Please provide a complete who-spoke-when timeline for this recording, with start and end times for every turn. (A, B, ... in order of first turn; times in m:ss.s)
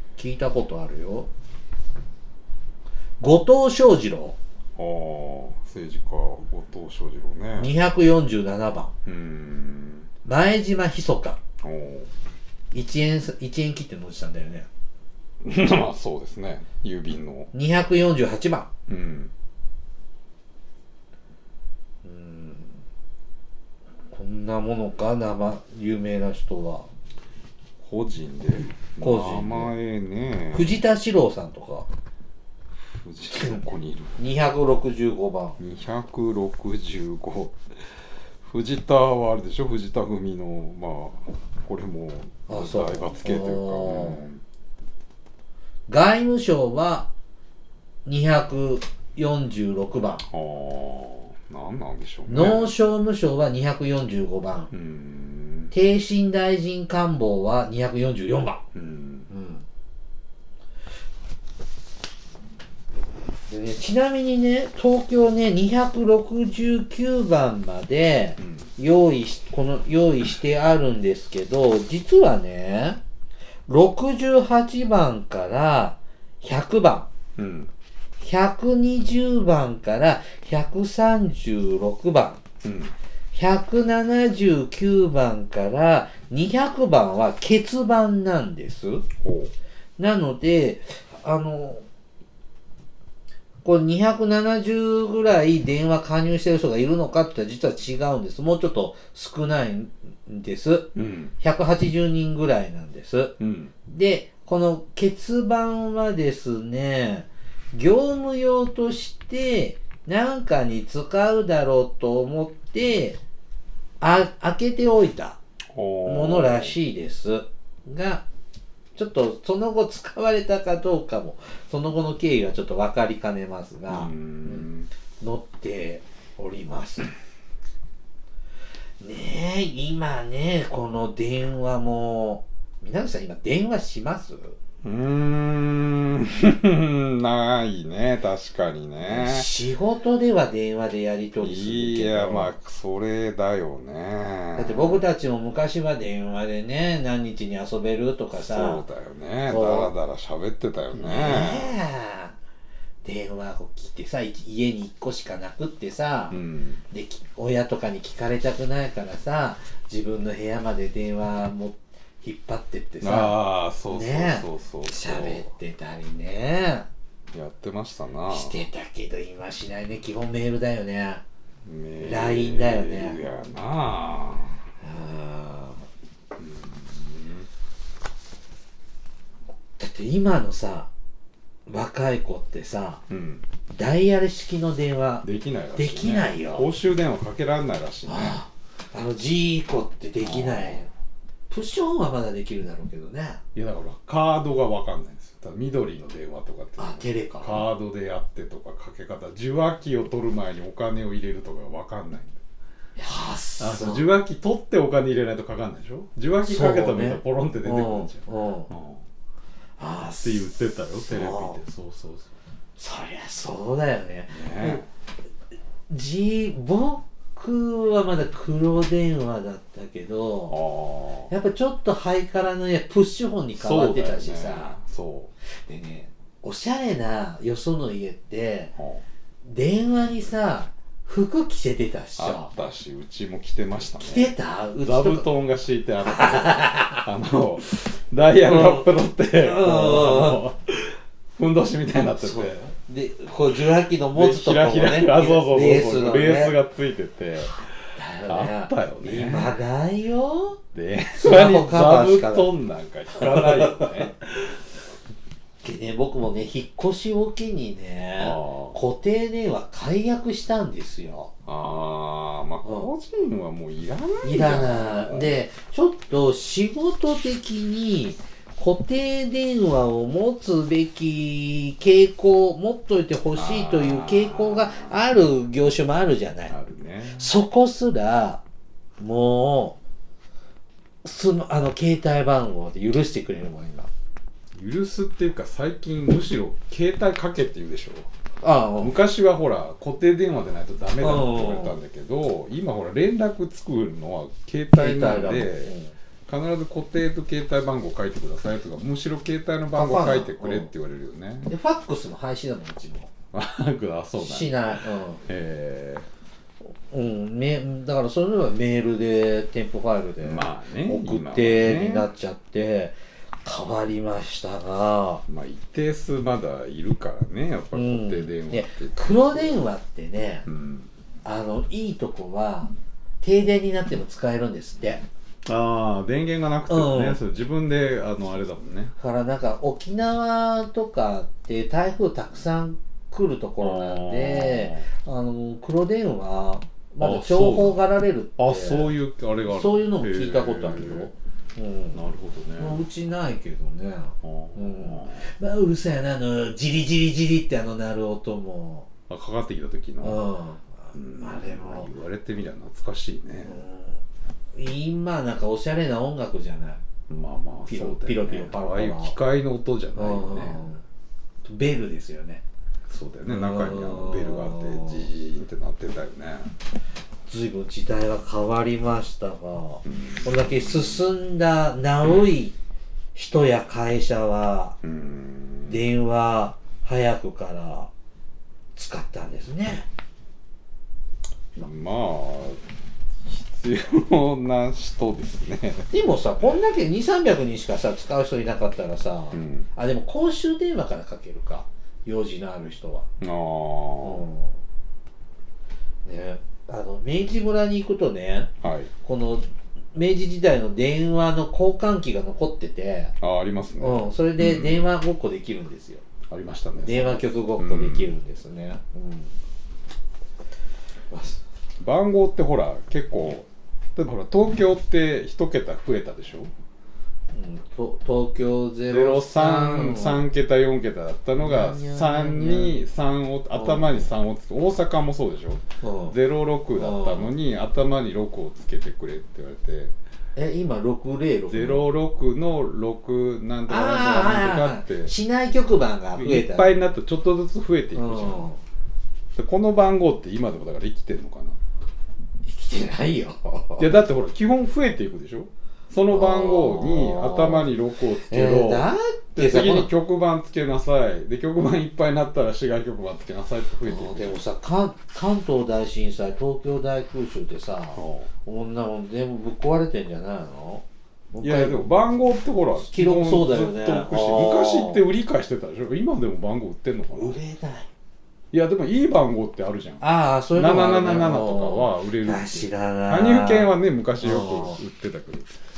0:00.2-0:01.3 A
0:03.2-0:04.4 A
0:04.8-0:07.7 B
0:07.6-0:08.9 A
0:09.0-0:10.1 B
0:10.2-0:11.4 A
0:11.6-0:12.1 B
0:12.7-0:14.7 A
0:15.4-0:17.5 B
0:17.5-0:18.7 A
0:18.9-0:19.3 B
0:22.0-0:22.8 A
0:24.1-0:26.9 A
0:27.8-0:30.8 B
0:29.0-0:29.7 A
0:30.5-0:31.9 A
0:32.8-0:34.2 B
0:33.3-0:33.6 A
0:34.2-0:35.6 A
0:35.6-0:37.6 B
0:38.4-0:44.4 B
0:42.5-0:44.2 A
0:45.9-0:47.1 A
0:48.0-0:50.2 A
0:50.2-0:52.7 B
0:52.3-0:54.7 A
0:54.7-0:55.7 B
0:55.7-0:58.6 A
0:58.7-0:59.3 B
0:59.3-0:59.6 A
1:03.5-1:13.0 A
1:08.4-1:08.7 B
1:13.7-1:17.1 A
1:17.4-1:17.7 B
1:18.2-1:22.4 A
1:22.6-1:22.9 B
1:23.3-1:29.0 A
1:29.2-1:29.5 B
1:30.0-1:31.8 A
1:33.6-1:53.2 A
1:40.9-1:41.3 B
1:43.4-1:43.7 B
1:54.0-1:55.4 A
1:55.7-1:56.7 B
1:56.0-1:58.2 A
1:59.0-2:04.7 A
2:03.9-2:04.9 B
2:05.2-2:07.1 A
2:09.0-2:14.6 A
2:14.8-2:19.5 B
2:19.0-2:22.5 A
2:21.4-2:25.0 B
2:24.6-2:28.8 A
2:28.4-2:31.8 B
2:29.5-2:29.9 A
2:30.9-2:32.4 A
2:33.0-2:36.4 A
2:36.3-2:36.8 B
2:36.9-2:43.4 A
2:43.0-2:45.4 B
2:43.9-2:46.9 A
2:47.3-2:48.6 B
2:48.3-2:51.2 A
2:51.6-2:54.6 B
2:52.0-2:53.2 A
2:54.8-2:55.8 A
2:56.4-2:57.5 B
2:59.8-3:00.9 A
3:01.7-3:03.0 A
3:03.1-3:03.4 B
3:03.7-3:06.7 A
3:05.2-3:08.4 B
3:08.0-3:10.9 A
3:10.2-3:10.9 B
3:11.5-3:13.4 A
3:13.5-3:22.4 B
3:16.8-3:17.7 A
3:23.0-3:24.1 A
3:23.6-3:29.0 B
3:26.4-3:28.7 A
3:29.8-3:31.6 A
3:30.1-3:32.3 B
3:32.8-3:34.8 A
3:34.3-3:34.9 B
3:35.9-3:40.6 A
3:40.5-3:41.3 B
3:41.3-3:44.7 A
3:43.5-3:45.3 B
3:45.6-3:48.7 A
3:48.8-3:49.0 B
3:49.4-3:52.5 A
3:52.2-4:02.7 B
3:54.0-3:55.3 A
3:56.0-3:57.1 A
3:58.4-3:58.9 A
3:59.4-4:00.4 A
4:02.2-4:06.6 A
4:04.1-4:07.7 B
4:07.5-4:10.6 A
4:08.3-4:09.6 B
4:10.7-4:14.2 B
4:11.1-4:12.5 A
4:13.1-4:14.1 A
4:15.6-4:21.3 A
4:18.2-4:18.8 B
4:21.4-4:25.4 B
4:22.6-4:22.9 A
4:24.2-4:36.5 A
4:33.3-4:35.0 B
4:36.5-4:37.3 B
4:37.1-4:38.4 A
4:39.0-4:39.8 A
4:41.0-4:43.9 A
4:44.5-4:48.1 B
4:48.4-4:48.9 A
4:48.8-4:55.7 B
4:51.0-4:51.8 A
4:54.7-4:55.9 A
4:56.3-5:01.5 B
4:59.7-5:00.7 A
5:01.5-5:03.1 A
5:03.3-5:06.1 B
5:04.2-5:05.2 A
5:06.9-5:15.2 A
5:10.2-5:12.1 B
5:15.3-5:19.6 B
5:17.7-5:20.5 A
5:20.4-5:20.9 B
5:21.2-5:25.0 A
5:25.4-5:28.9 B
5:26.7-5:27.2 A
5:29.0-5:38.9 A
5:33.6-5:34.9 B
5:37.0-5:37.8 B
5:38.4-5:41.1 B
5:39.5-5:42.0 A
5:41.9-5:42.8 B
5:42.6-5:48.9 A
5:44.2-5:45.3 B
5:49.1-5:50.2 B
5:50.0-5:51.9 A
5:50.9-5:53.6 B
5:53.4-5:54.0 A
5:54.5-5:56.8 A
5:57.1-6:00.7 B
5:57.7-5:59.2 A
5:59.9-6:00.8 A
6:01.4-6:02.4 A
6:02.9-6:06.5 B
6:03.3-6:05.1 A
6:07.3-6:12.6 A
6:09.8-6:11.0 B
6:13.1-6:14.8 A
6:14.8-6:15.8 B
6:15.7-6:17.9 A
6:18.8-6:19.9 A
6:21.6-6:22.6 B
6:23.2-6:26.6 B
6:25.9-6:33.1 A
6:29.3-6:29.7 B
6:33.2-6:34.3 B
6:34.0-6:34.5 A
6:36.0-6:38.5 A
6:38.6-6:38.9 B
6:39.0-6:43.1 A
6:43.2-6:44.8 B
6:43.8-6:46.0 A
6:46.3-6:48.1 B
6:46.8-6:49.3 A
6:51.1-6:51.4 A
6:51.8-6:56.5 B
6:57.3-7:00.2 A
6:58.9-7:09.9 B
7:01.4-7:02.8 A
7:03.5-7:04.1 A
7:05.8-7:06.2 A
7:06.8-7:07.3 A
7:10.4-7:11.9 A
7:11.5-7:15.1 B
7:13.7-7:16.7 A
7:16.1-7:18.5 B
7:17.9-7:18.6 A
7:19.4-7:21.6 B
7:22.4-7:23.9 A
7:23.8-7:34.4 B
7:26.1-7:27.7 A
7:28.3-7:29.9 A
7:33.9-7:41.8 A
7:38.0-7:38.3 B
7:41.4-7:47.4 B
7:42.8-7:45.0 A
7:47.1-7:47.9 A
7:48.5-7:50.0 B
7:50.0-7:54.8 A
7:50.5-7:55.5 B